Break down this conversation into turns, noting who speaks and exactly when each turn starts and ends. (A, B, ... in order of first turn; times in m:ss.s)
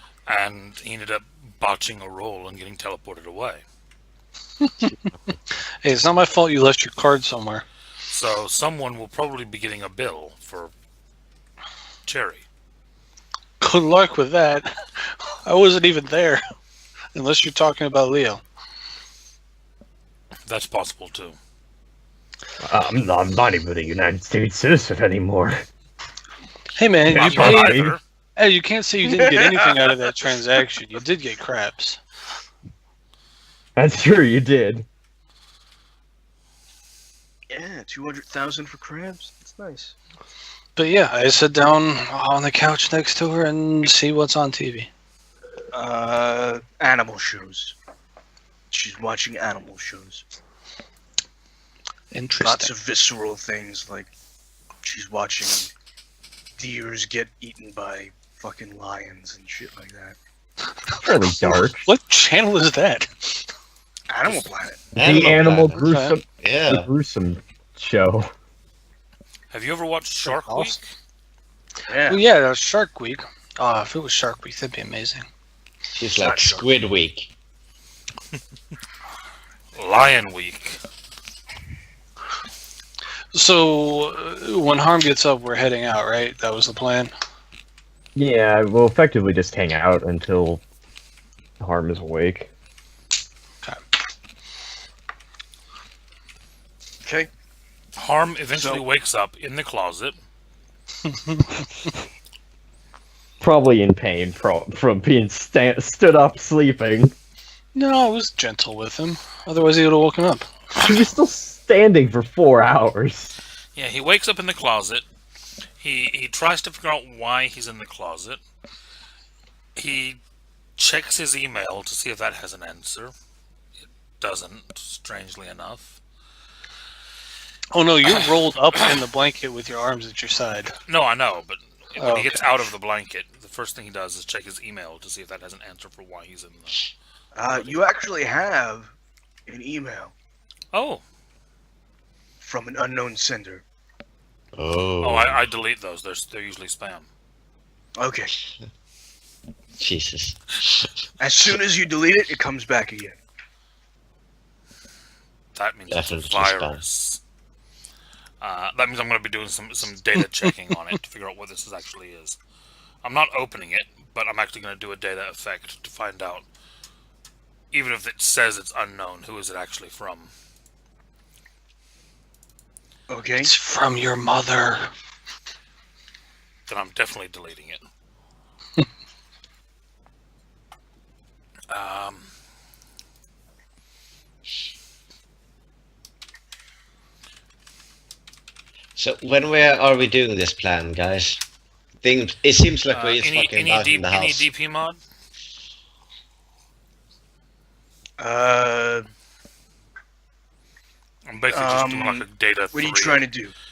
0:00.3-0:03.6 A
0:04.6-0:04.9 B
0:05.8-0:07.6 B
0:08.1-0:10.7 A
0:12.0-0:12.4 A
0:13.6-0:14.7 B
0:15.4-0:16.4 B
0:17.1-0:18.4 B
0:20.5-0:21.4 A
0:22.6-0:25.6 C
0:26.8-0:27.8 B
0:27.0-0:28.0 C
0:27.1-0:28.0 A
0:28.4-0:32.0 B
0:29.0-0:29.8 D
0:33.8-0:34.8 C
0:37.5-0:39.9 D
0:40.8-0:44.9 B
0:45.7-0:47.8 D
0:48.7-0:50.2 D
0:52.1-0:52.7 B
0:52.4-0:54.1 D
0:54.8-0:55.7 D
0:56.6-1:00.2 D
1:01.0-1:01.8 C
1:01.5-1:03.5 B
1:04.1-1:04.8 D
1:04.9-1:05.9 E
1:05.0-1:08.3 C
1:05.9-1:06.2 B
1:06.4-1:06.9 E
1:09.5-1:10.9 A
1:10.2-1:10.8 B
1:11.9-1:12.2 D
1:12.0-1:15.2 B
1:16.0-1:17.3 E
1:16.2-1:16.7 D
1:19.7-1:20.8 A
1:23.3-1:27.1 B
1:28.1-1:30.6 C
1:31.6-1:32.5 C
1:37.0-1:37.3 D
1:38.0-1:40.1 A
1:38.5-1:38.8 D
1:43.4-1:47.1 C
1:47.7-1:50.5 B
1:50.7-1:53.3 C
1:53.7-1:55.0 A
1:55.8-1:58.4 A
1:59.8-2:00.2 A
2:00.8-2:03.1 A
2:04.2-2:06.0 A
2:07.7-2:10.7 B
2:10.9-2:16.8 A
2:12.0-2:12.4 B
2:17.3-2:18.9 D
2:17.4-2:17.8 A
2:19.5-2:20.1 D
2:20.7-2:21.0 A
2:22.4-2:23.6 D
2:24.5-2:25.5 E
2:25.0-2:27.1 A
2:28.0-2:28.3 D
2:29.8-2:30.8 E
2:31.2-2:33.2 D
2:35.5-2:37.2 A
2:35.9-2:36.8 E
2:38.4-2:42.4 A
2:43.0-2:46.4 A
2:47.7-2:50.3 A
2:53.1-2:53.5 D
2:53.4-2:54.9 B
2:56.7-2:57.8 A
3:01.7-3:02.3 A
3:08.9-3:11.4 E
3:12.0-3:14.5 E
3:12.9-3:15.0 A
3:18.2-3:19.1 D
3:21.2-3:23.3 A
3:21.5-3:23.5 D